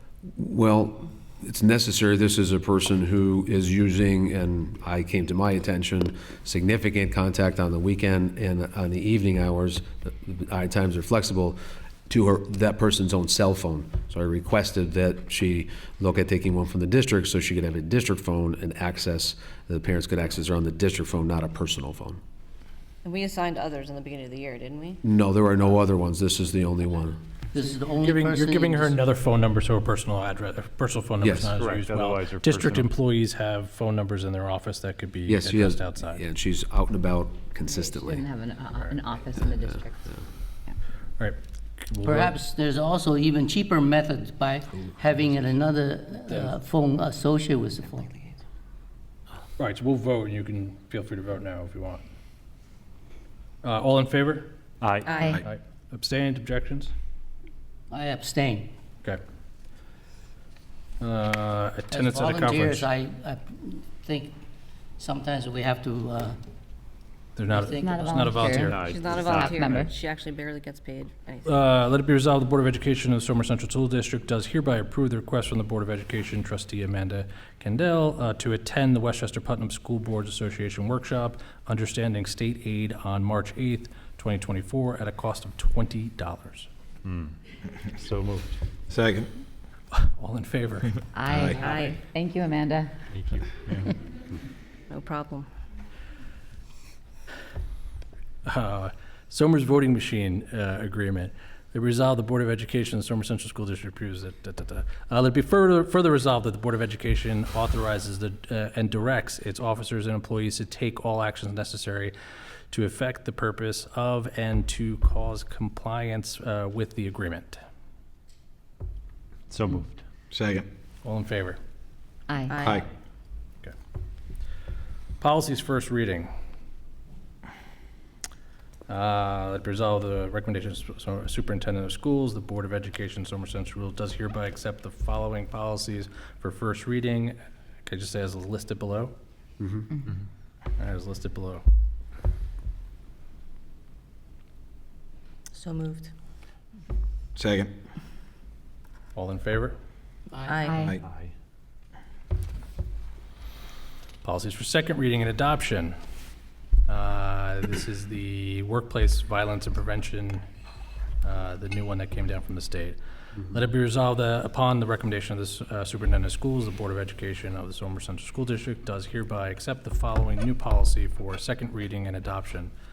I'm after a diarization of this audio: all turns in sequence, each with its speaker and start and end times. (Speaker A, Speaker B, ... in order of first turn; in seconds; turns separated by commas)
Speaker A: 0.2-22.2, Speaker B: 23.0-25.0, Speaker A: 25.0-27.2, Speaker C: 27.5-29.0, Speaker D: 28.0-36.2, Speaker A: 31.2-31.6, Speaker E: 31.6-32.9, Speaker A: 35.3-38.2, Speaker F: 38.0-40.8, Speaker D: 41.2-42.3, Speaker C: 42.0-48.1, Speaker D: 49.6-52.0, Speaker D: 53.6-54.5, Speaker E: 54.8-55.1, Speaker B: 55.1-55.4, Speaker F: 55.1-55.4, Speaker D: 55.3-56.9, Speaker C: 57.9-58.7, Speaker D: 61.0-62.9, Speaker C: 61.9-64.4, Speaker C: 65.0-66.4, Speaker D: 67.4-68.8, Speaker C: 67.5-68.7, Speaker F: 67.7-69.9, Speaker E: 68.6-69.5, Speaker B: 68.8-71.6, Speaker D: 71.5-86.7, Speaker E: 87.0-87.4, Speaker E: 88.0-88.6, Speaker G: 88.9-89.3, Speaker D: 89.9-91.0, Speaker F: 91.1-92.9, Speaker G: 91.2-91.6, Speaker B: 91.5-92.0, Speaker E: 93.1-93.8, Speaker B: 94.9-95.5, Speaker D: 98.5-112.1, Speaker D: 112.7-117.6, Speaker E: 119.5-120.0, Speaker G: 120.3-120.7, Speaker D: 121.0-121.6, Speaker F: 122.3-122.7, Speaker B: 122.5-122.9, Speaker G: 122.6-122.9, Speaker D: 125.2-126.3, Speaker D: 128.9-139.1, Speaker A: 139.6-139.8, Speaker D: 140.8-141.6, Speaker B: 145.5-146.1, Speaker G: 147.3-147.7, Speaker D: 149.1-149.8, Speaker C: 150.3-150.7, Speaker B: 150.4-150.8, Speaker F: 150.6-151.0, Speaker G: 150.8-151.0, Speaker E: 151.1-151.3, Speaker D: 154.2-156.0, Speaker D: 156.8-160.4, Speaker D: 161.2-163.0, Speaker D: 163.5-172.7